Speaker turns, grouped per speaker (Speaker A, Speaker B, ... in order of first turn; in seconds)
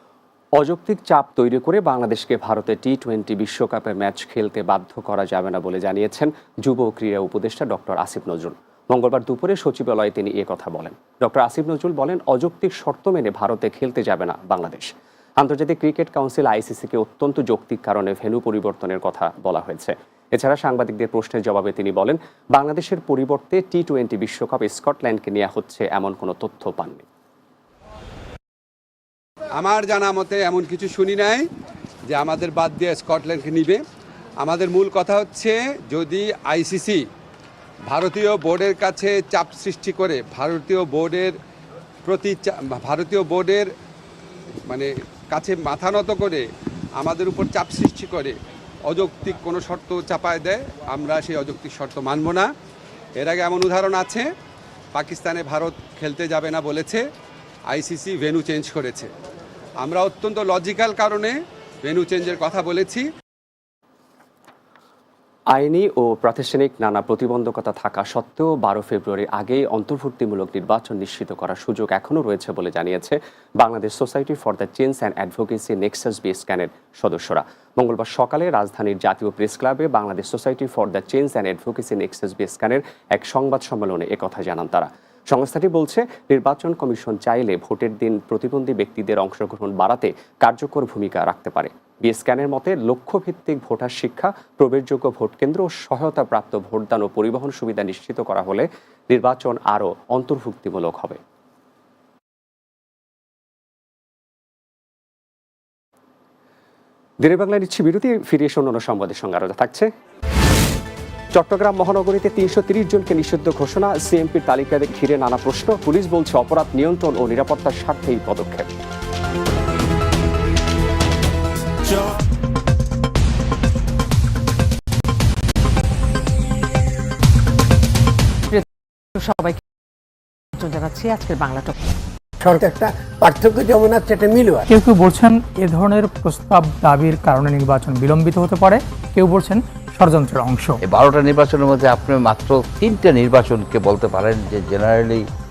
Speaker A: 0.6-27.0, 65.5-101.2, 107.2-109.9, 111.3-118.7
Speaker B: 29.6-31.5, 32.1-33.8, 34.4-37.0, 37.9-41.4, 42.0-43.7, 44.7-46.4, 47.0-52.5, 53.2-54.3, 54.9-57.0, 57.7-59.1, 59.8-63.1
Speaker C: 129.2-129.6, 130.6-131.7, 134.1-134.4
Speaker D: 134.7-140.8
Speaker E: 140.8-145.2